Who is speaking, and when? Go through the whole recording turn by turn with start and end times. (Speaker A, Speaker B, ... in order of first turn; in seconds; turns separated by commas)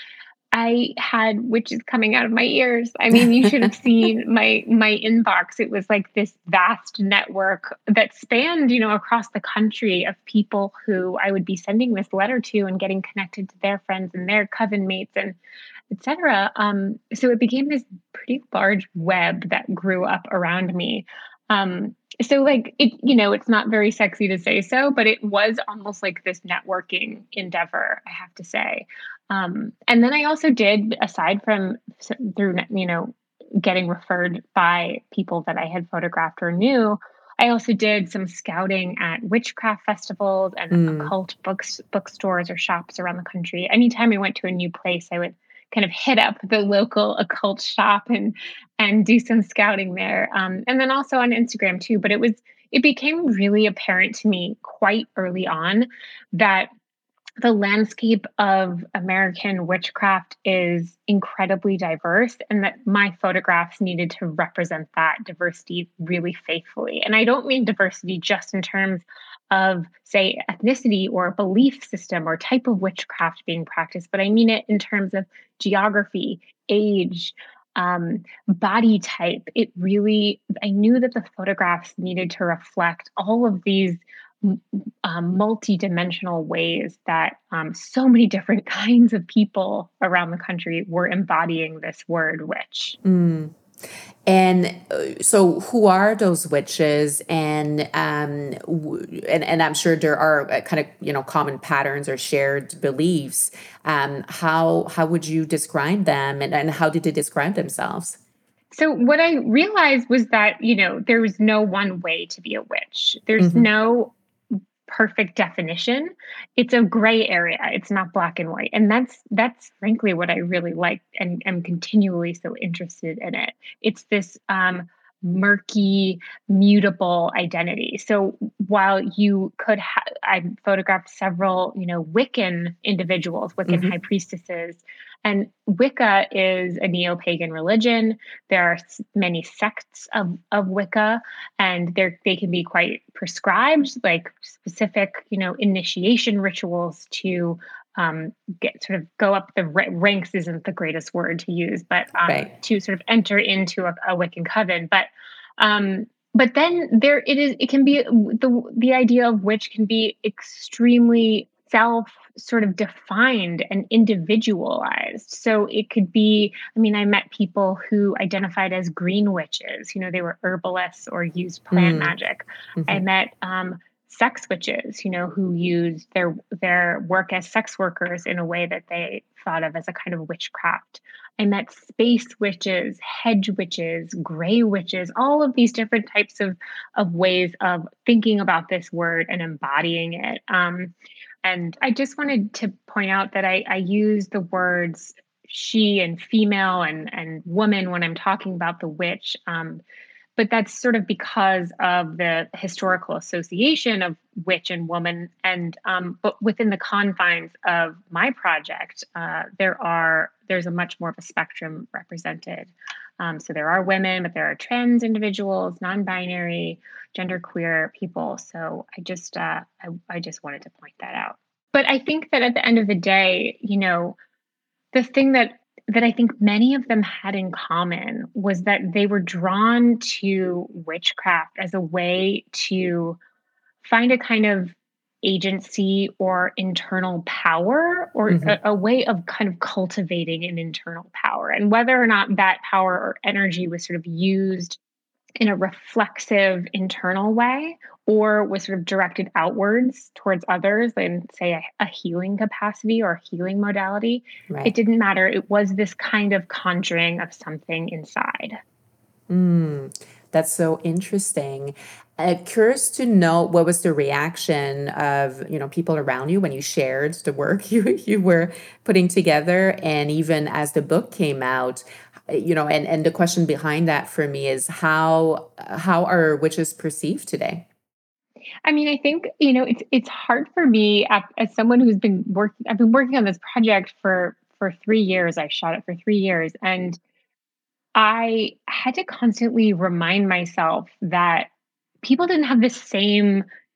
Speaker A: 0.5-15.4, Speaker A: 15.9-56.7, Speaker B: 40.7-41.1, Speaker A: 57.4-93.0, Speaker B: 93.0-93.5, Speaker B: 94.3-108.2, Speaker A: 108.7-114.1, Speaker B: 113.4-113.7, Speaker A: 114.9-199.8, Speaker B: 133.7-133.9, Speaker B: 171.7-172.2, Speaker B: 172.8-173.0, Speaker A: 200.4-224.2, Speaker A: 224.9-233.2, Speaker A: 233.8-244.8, Speaker B: 238.3-238.6, Speaker A: 245.4-258.6, Speaker B: 254.5-254.7, Speaker B: 259.3-277.7, Speaker A: 278.6-287.0, Speaker A: 287.9-291.5, Speaker A: 292.0-293.4